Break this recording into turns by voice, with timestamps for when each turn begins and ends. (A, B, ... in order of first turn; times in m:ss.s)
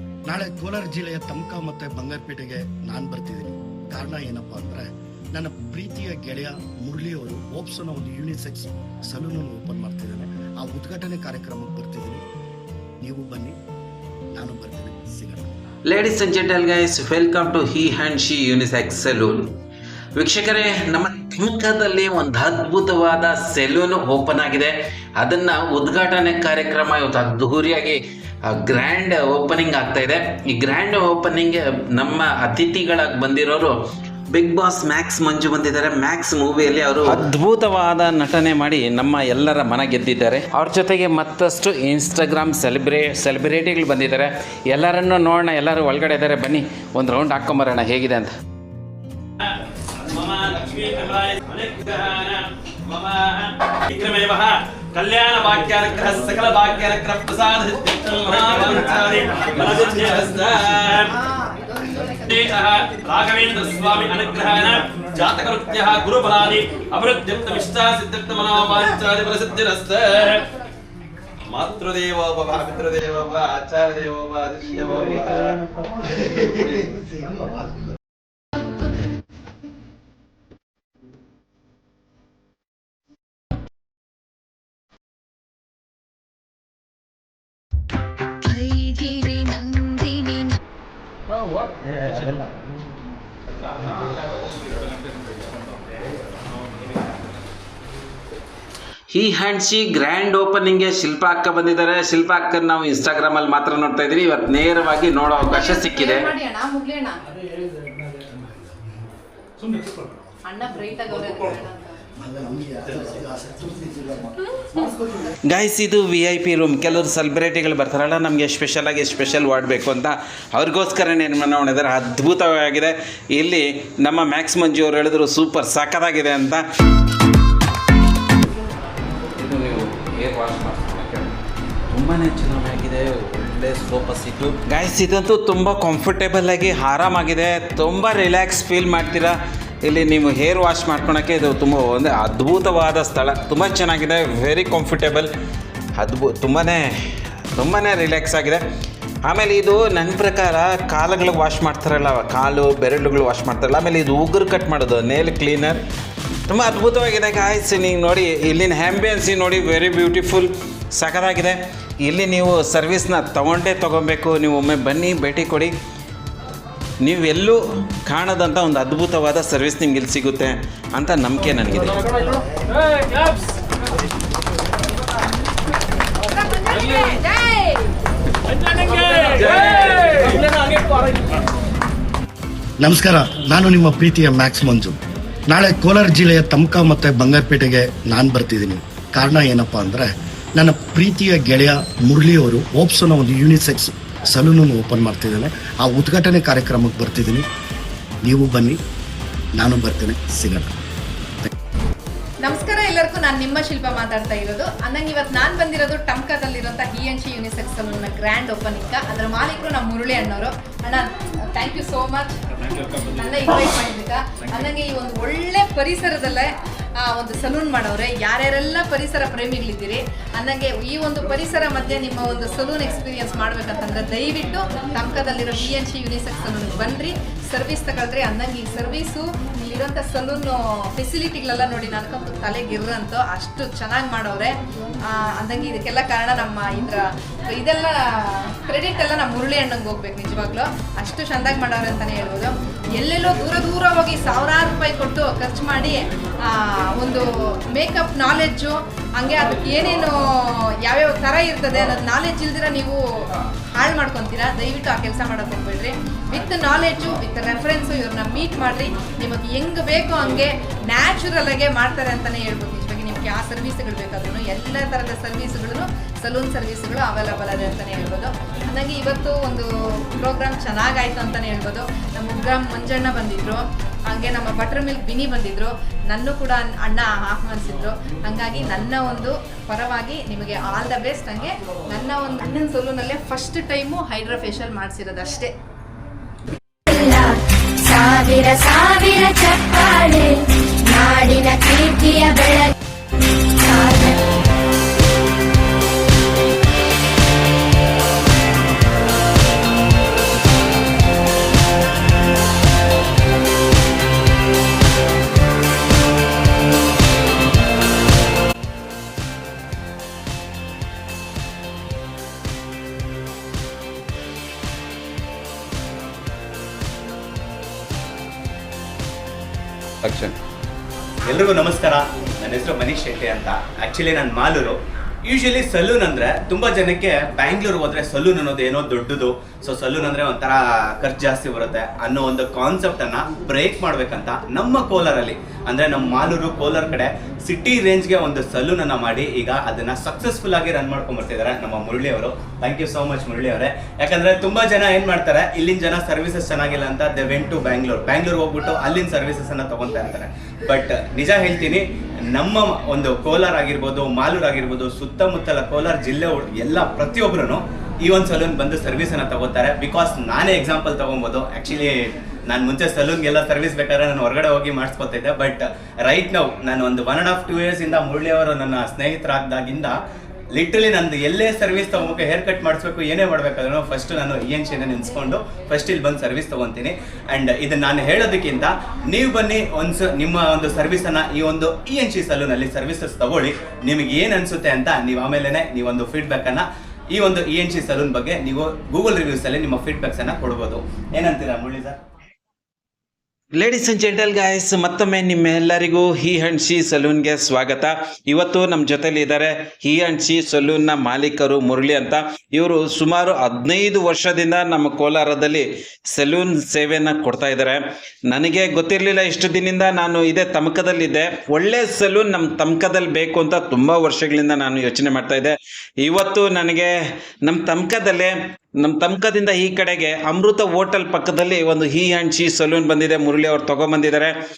0:00.3-0:12.2 A
0:13.0-0:13.6 A
0:14.3-0:15.5 A
0:15.9-0:19.5 B
0:20.2-0:33.8 B
0:34.3-0:48.3 B
0:50.1-1:01.1 C
1:01.1-1:02.6 D
1:02.4-1:10.4 C
1:11.6-1:14.6 C
1:28.5-1:30.5 E
1:39.1-1:46.3 B
1:45.3-1:47.2 D
1:50.4-1:52.0 D
1:52.2-1:55.3 A
1:55.5-2:06.6 B
2:09.4-2:11.3 B
2:11.9-2:25.3 B
2:26.0-2:26.9 B
2:27.6-2:28.6 B
2:29.2-2:35.8 B
2:36.5-2:45.7 B
2:47.0-2:52.4 B
2:56.3-2:57.8 D
3:02.8-3:05.0 A
3:05.5-3:17.4 A
3:18.3-3:18.8 A
3:19.6-3:20.7 A
3:22.4-3:32.4 D
3:32.9-3:54.6 D
3:55.1-4:45.5 D
4:46.9-4:52.7 E
4:53.6-4:54.2 E
5:20.1-5:20.3 B
5:21.2-6:10.0 F
6:10.5-6:32.0 F
6:33.6-6:56.9 B
6:57.5-7:04.3 B